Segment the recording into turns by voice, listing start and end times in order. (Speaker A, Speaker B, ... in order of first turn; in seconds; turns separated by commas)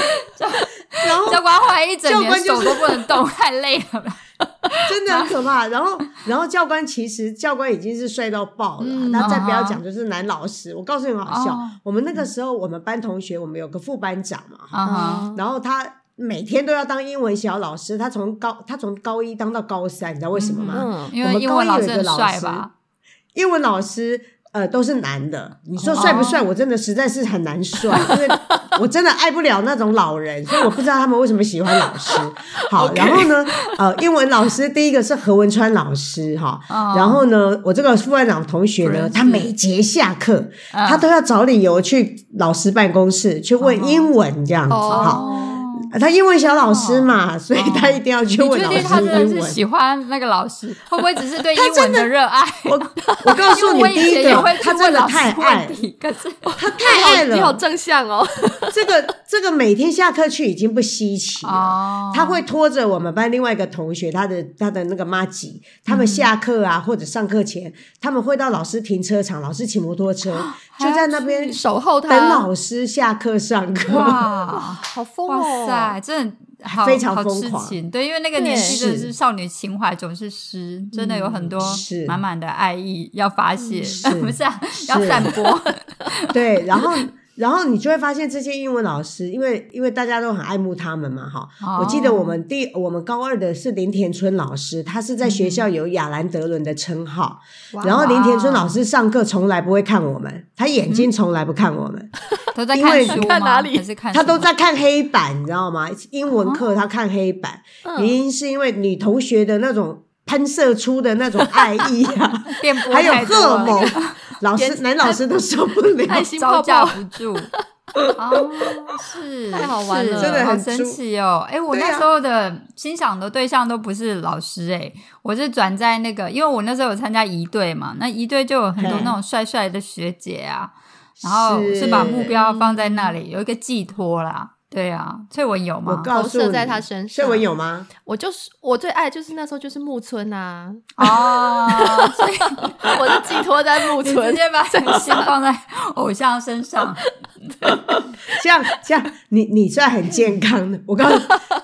Speaker A: 0.3-5.3, Speaker B: 1.0-1.5, Speaker B: 2.0-3.0, Speaker B: 4.8-22.7, Speaker C: 8.8-9.5, Speaker A: 9.2-9.8, Speaker A: 11.3-11.8, Speaker A: 14.7-15.3, Speaker C: 14.8-15.4, Speaker A: 20.4-22.7, Speaker C: 20.7-21.1, Speaker B: 23.4-45.2, Speaker C: 25.8-26.4, Speaker A: 25.9-26.4, Speaker A: 32.8-33.3, Speaker A: 36.7-37.2, Speaker A: 38.8-39.5, Speaker A: 40.7-41.1, Speaker A: 43.6-44.1, Speaker C: 44.7-45.6, Speaker A: 44.9-45.9, Speaker B: 45.9-49.6, Speaker A: 46.6-56.6, Speaker B: 51.6-52.1, Speaker B: 52.6-55.8, Speaker C: 53.3-54.5, Speaker B: 56.6-57.6, Speaker C: 56.7-58.9, Speaker B: 58.7-74.2, Speaker A: 61.4-62.4, Speaker A: 65.9-66.3, Speaker A: 70.4-71.6, Speaker C: 71.5-72.5, Speaker A: 73.9-86.4, Speaker C: 74.5-76.0, Speaker B: 76.6-77.8, Speaker C: 78.3-78.8, Speaker B: 78.6-79.1, Speaker C: 81.0-81.5, Speaker B: 81.5-82.2, Speaker C: 83.6-84.0, Speaker B: 84.0-85.3, Speaker C: 85.3-85.7, Speaker B: 86.3-102.1, Speaker A: 91.6-92.3, Speaker A: 95.2-95.6, Speaker C: 97.7-98.1, Speaker A: 97.9-98.8, Speaker A: 102.5-104.5, Speaker B: 102.7-103.3, Speaker C: 103.1-103.8, Speaker B: 104.1-116.3, Speaker A: 106.3-106.6, Speaker C: 107.8-108.2, Speaker A: 112.5-114.2, Speaker C: 113.6-113.9, Speaker C: 114.5-115.2, Speaker C: 116.0-117.6, Speaker A: 116.1-117.5, Speaker A: 118.2-136.1, Speaker C: 119.5-120.5, Speaker B: 120.2-121.0, Speaker B: 121.7-122.1, Speaker B: 128.8-129.2, Speaker B: 131.2-132.3, Speaker C: 131.9-133.1, Speaker B: 135.9-137.9, Speaker C: 136.1-137.4, Speaker C: 138.0-142.3, Speaker A: 141.0-143.0, Speaker C: 142.8-145.3, Speaker A: 143.9-147.5, Speaker C: 146.8-147.1, Speaker C: 147.6-148.3, Speaker B: 148.3-151.4, Speaker C: 151.1-151.4